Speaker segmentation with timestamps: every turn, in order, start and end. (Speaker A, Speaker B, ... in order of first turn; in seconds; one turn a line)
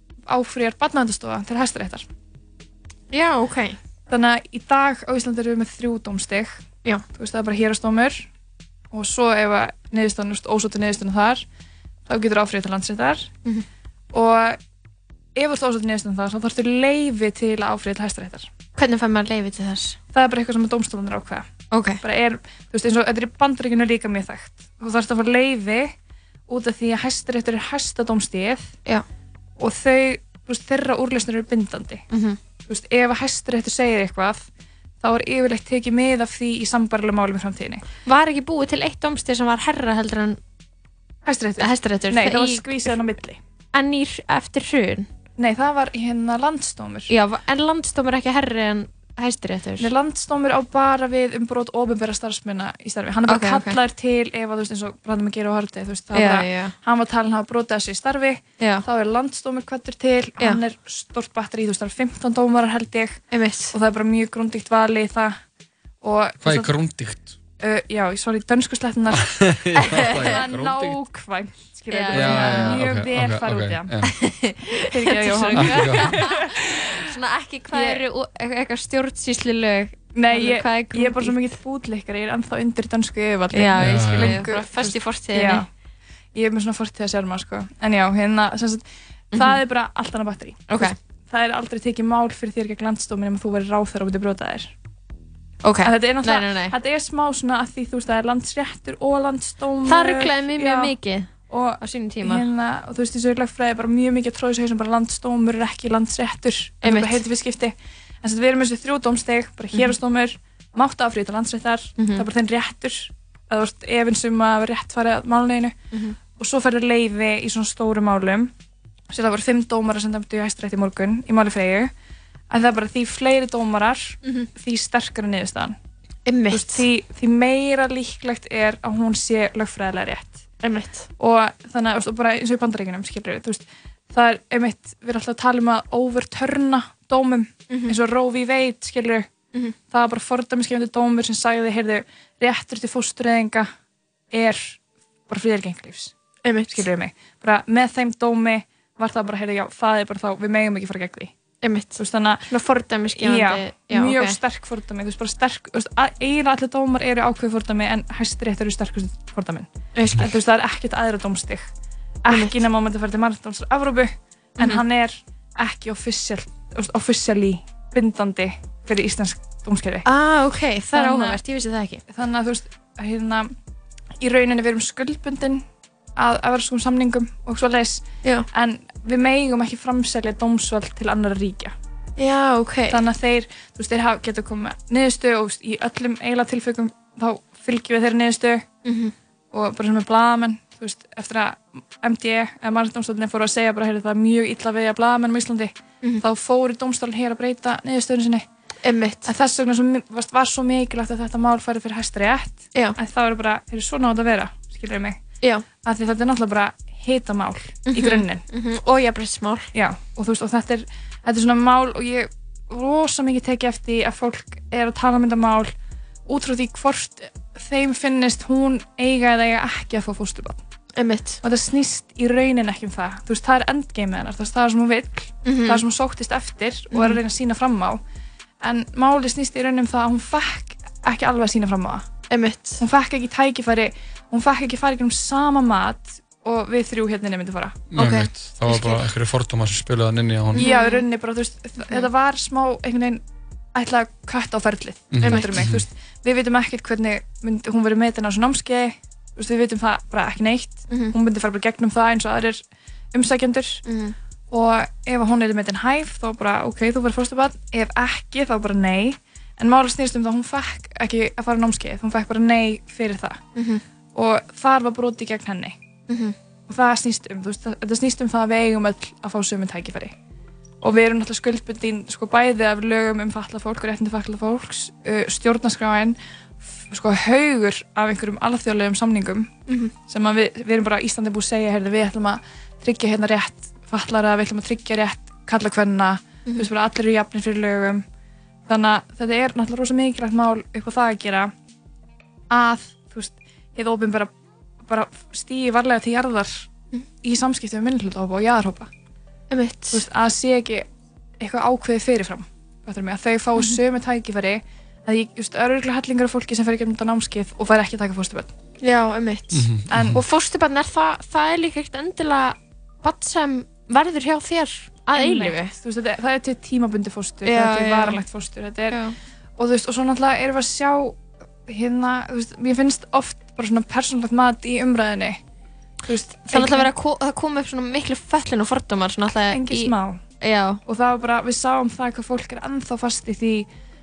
Speaker A: 0.3-2.1
Speaker B: 3.1-3.8
Speaker A: 4.1-8.3
Speaker A: 8.9-11.5
Speaker A: 12.1-13.3
Speaker A: 14.1-14.6
Speaker A: 15.4-18.5
Speaker B: 18.8-20.0
Speaker A: 20.1-25.9
Speaker B: 21.7-22.0
Speaker A: 26.5-28.8
Speaker A: 29.6-32.0
Speaker B: 32.1-32.4
Speaker A: 32.7-34.5
Speaker A: 35.0-37.8
Speaker B: 38.1-40.4
Speaker A: 41.3-43.4
Speaker B: 41.6-42.9
Speaker B: 43.7-45.1
Speaker A: 45.4-47.1
Speaker B: 47.1-49.9
Speaker A: 49.8-65.4
Speaker B: 53.3-53.8
Speaker B: 56.1-56.7
Speaker B: 58.6-58.8
Speaker B: 63.3-63.7
Speaker A: 66.0-66.7
Speaker C: 66.4-67.4
Speaker A: 67.6-69.4
Speaker C: 69.4-71.0
Speaker B: 69.8-70.4
Speaker A: 70.2-74.0
Speaker B: 71.9-72.8
Speaker C: 72.1-74.1
Speaker B: 74.0-81.5
Speaker A: 74.9-76.5
Speaker C: 75.5-76.2
Speaker A: 77.7-78.0
Speaker A: 80.1-85.7
Speaker B: 83.5-85.7
Speaker C: 83.8-84.4
Speaker A: 86.3-94.7
Speaker B: 89.3-89.6
Speaker B: 90.7-91.0
Speaker B: 95.6-96.8
Speaker A: 95.8-100.9
Speaker B: 99.9-102.5
Speaker A: 101.5-118.5
Speaker B: 106.8-107.2
Speaker B: 112.0-112.2
Speaker A: 119.1-121.9
Speaker A: 122.5-125.8
Speaker B: 126.3-126.8
Speaker A: 126.5-130.4
Speaker B: 130.6-131.1
Speaker A: 131.2-139.3
Speaker B: 137.7-138.0
Speaker A: 139.9-143.7
Speaker A: 144.3-146.1
Speaker B: 146.4-146.9
Speaker A: 146.7-151.3
Speaker B: 151.6-154.4
Speaker A: 152.0-152.5
Speaker A: 153.2-161.7
Speaker B: 159.9-160.3
Speaker A: 162.2-170.1
Speaker B: 162.3-162.6
Speaker B: 164.6-164.8
Speaker B: 170.1-172.0
Speaker A: 170.9-171.4
Speaker A: 172.1-173.5
Speaker A: 174.2-175.6
Speaker A: 176.2-181.7
Speaker B: 182.2-183.0
Speaker A: 182.9-188.7
Speaker B: 188.8-189.1
Speaker A: 189.5-198.5
Speaker B: 198.8-199.3
Speaker A: 199.2-205.2
Speaker A: 205.8-208.4
Speaker B: 207.9-209.7
Speaker A: 209.7-215.7
Speaker A: 216.3-220.6
Speaker B: 221.0-221.4
Speaker A: 221.4-228.0
Speaker B: 225.4-225.8
Speaker B: 226.9-227.2
Speaker A: 228.6-232.1
Speaker B: 232.3-232.8
Speaker A: 232.8-237.8
Speaker C: 237.9-240.7
Speaker B: 237.9-239.0
Speaker B: 240.5-241.1
Speaker A: 240.6-243.2
Speaker A: 243.7-252.6
Speaker C: 245.1-245.8
Speaker B: 245.2-245.6
Speaker B: 250.9-251.1
Speaker A: 253.1-253.8
Speaker B: 253.8-254.1
Speaker A: 254.5-263.4
Speaker B: 263.6-263.8
Speaker A: 264.1-265.8
Speaker B: 266.1-266.4
Speaker A: 266.7-270.1
Speaker A: 270.8-276.2
Speaker A: 276.9-279.5
Speaker B: 279.7-279.9
Speaker A: 280.1-288.0
Speaker A: 288.7-291.5
Speaker A: 292.5-294.3
Speaker A: 294.9-298.9
Speaker B: 299.5-300.0
Speaker A: 299.9-300.9
Speaker A: 301.4-308.5
Speaker B: 308.8-315.7
Speaker C: 309.5-310.2
Speaker A: 309.9-310.2
Speaker A: 315.1-319.0
Speaker B: 317.4-318.2
Speaker B: 318.9-319.1
Speaker A: 319.6-325.4
Speaker A: 326.1-326.9
Speaker B: 326.5-330.8
Speaker A: 329.5-330.2
Speaker A: 330.9-333.7